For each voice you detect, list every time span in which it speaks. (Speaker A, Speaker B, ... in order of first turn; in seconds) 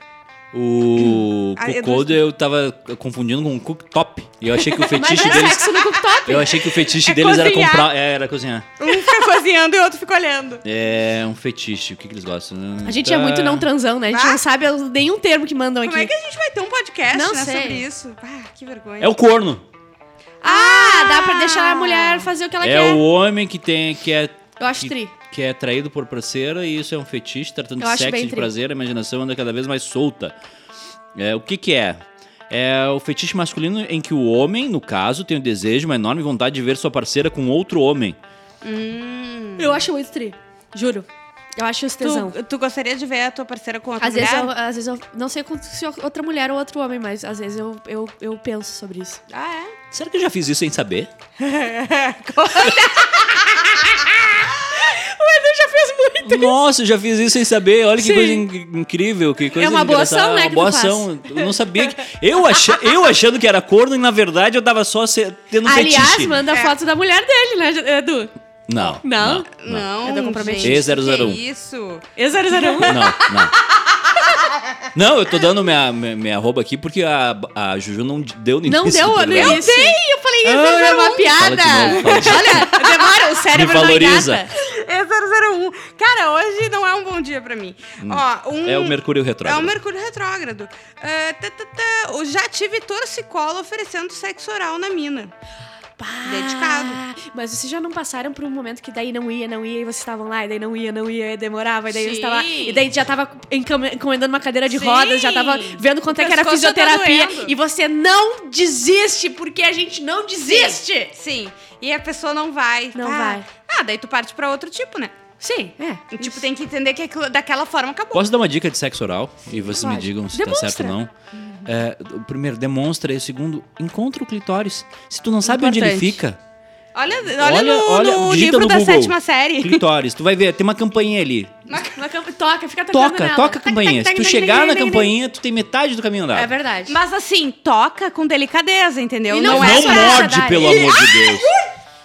Speaker A: 0.5-5.7, 6.2-8.7, 10.6-13.7, 19.0-19.6, 22.6-30.4, 31.1-38.2, 49.9-51.1, 56.2-66.4, 68.7-69.9, 70.6-71.4, 72.8-73.5, 74.9-79.7, 81.3-82.8, 83.5-84.4, 88.0-89.8, 118.1-121.1, 121.7-126.4, 127.4-131.6, 132.9-136.5, 139.4-141.5
Speaker B: 1.6-2.2, 4.6-7.9, 8.8-10.6, 14.1-14.4, 15.8-19.1, 20.4-22.3, 38.6-39.8, 42.0-44.5, 49.3-49.7, 51.4-53.6, 66.5-66.7, 69.5-74.6, 79.3-83.7, 84.5-95.3, 96.2-97.0, 101.9-102.9, 104.7-107.5, 110.5-115.1, 116.1-118.2, 121.3-121.7, 125.5-126.2, 126.9-129.8, 131.7-132.0, 136.9-141.7
Speaker C: 5.0-6.5, 12.8-16.1, 17.1-17.8, 20.4-23.0, 24.6-25.1, 27.8-28.5, 39.6-42.3, 44.0-49.2, 52.6-56.6, 58.0-58.5, 59.5-61.9, 65.6-68.3, 68.8-69.5, 70.0-70.9, 72.2-73.2, 78.6-84.5, 96.0-111.1, 112.9-113.5, 115.4-116.4, 119.5-121.0, 131.9-135.1, 136.3-136.9, 139.3-140.9